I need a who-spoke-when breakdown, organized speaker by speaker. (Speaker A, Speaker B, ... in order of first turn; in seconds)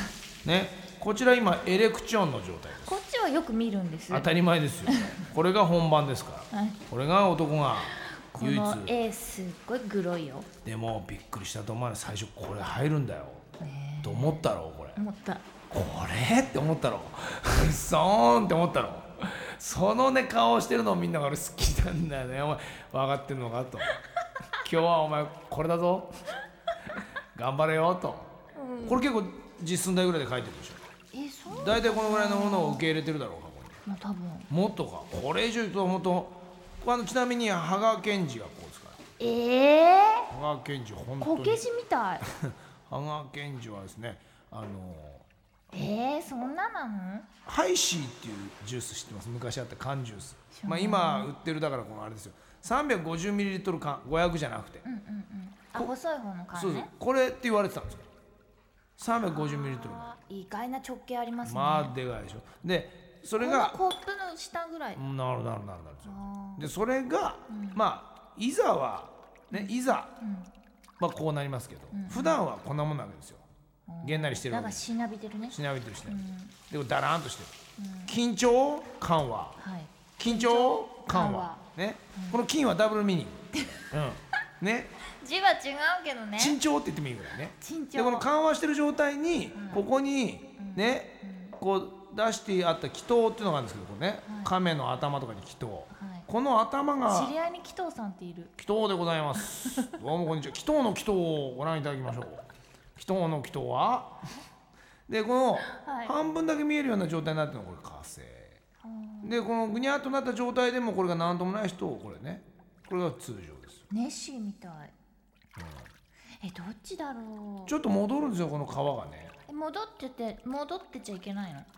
Speaker A: 0.4-3.0, 4.1-8.9, 10.6-13.4, 14.0-15.0, 15.7-24.0, 24.6-26.1, 27.3-28.3, 28.8-30.8, 31.5-33.8, 34.5-39.0, 40.3-41.6, 42.2-45.2, 47.4-54.9, 56.5-58.0, 59.0-60.1, 61.4-63.8, 64.9-70.1, 71.0-73.4, 74.0-74.8, 75.5-77.5, 78.1-79.6, 80.2-84.9, 86.4-97.3, 98.6-104.2, 105.1-108.6, 109.2-113.8, 115.6-115.9, 117.7-119.3
Speaker B: 2.8-4.3, 4.8-5.2, 6.5-6.8, 7.9-10.5, 13.6-14.4, 14.9-15.4, 28.5-29.0, 31.1-32.9, 33.8-34.5, 39.2-40.3, 41.2-42.2, 45.7-47.3, 50.5-51.3, 54.8-56.9, 59.2-61.9, 63.4-65.0, 66.0-66.7, 67.5-67.8, 69.5-70.5, 71.9-72.4, 73.9-76.5, 77.8-78.2, 79.6-81.6, 83.5-83.8, 85.2-86.6, 87.6-88.3, 89.5-89.8, 90.6-91.6, 94.2-94.5, 95.9-96.3, 97.1-98.5, 99.3-99.9, 105.7-106.1, 108.8-109.4, 113.9-114.9, 116.4-117.7, 119.5-121.7